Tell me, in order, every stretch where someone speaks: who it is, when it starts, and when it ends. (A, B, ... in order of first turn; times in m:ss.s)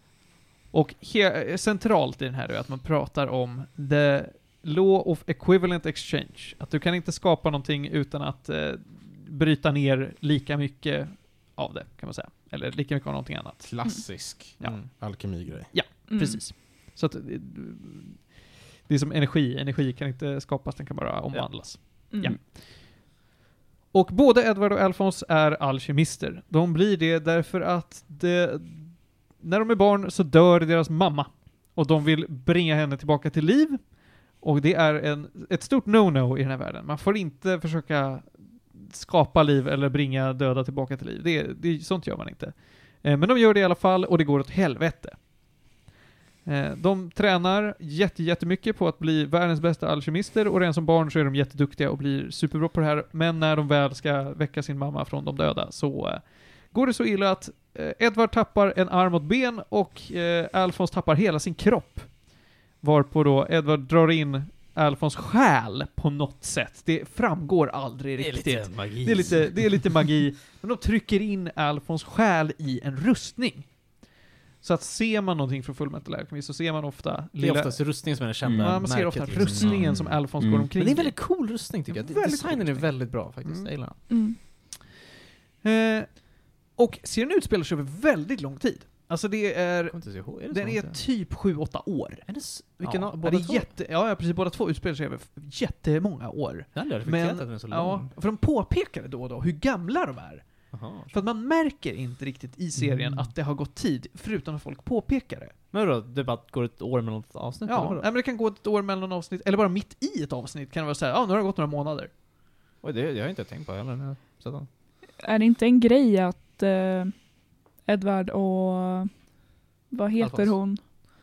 0:00.7-0:14.0 A
0:13.6-0:15.7 B
0:14.6-0:23.0 A
0:16.1-0:16.4 C
0:22.1-0:22.4 C
0:23.9-0:45.3 A
0:46.4-1:13.9 A
1:08.2-1:09.9 D
1:14.6-1:24.0 A
1:17.4-1:20.1 D
1:19.4-1:20.2 B
1:20.7-1:24.0 D
1:24.1-1:24.4 C
1:25.6-1:45.5 A
1:29.9-1:31.0 D
1:32.3-1:33.7 D
1:36.7-1:38.1 D
1:40.7-1:41.2 D
1:45.7-1:48.0 D
1:47.7-1:52.1 A
1:52.8-1:54.7 D
1:55.2-1:59.3 C
1:59.9-2:00.8 C
2:00.2-2:00.6 D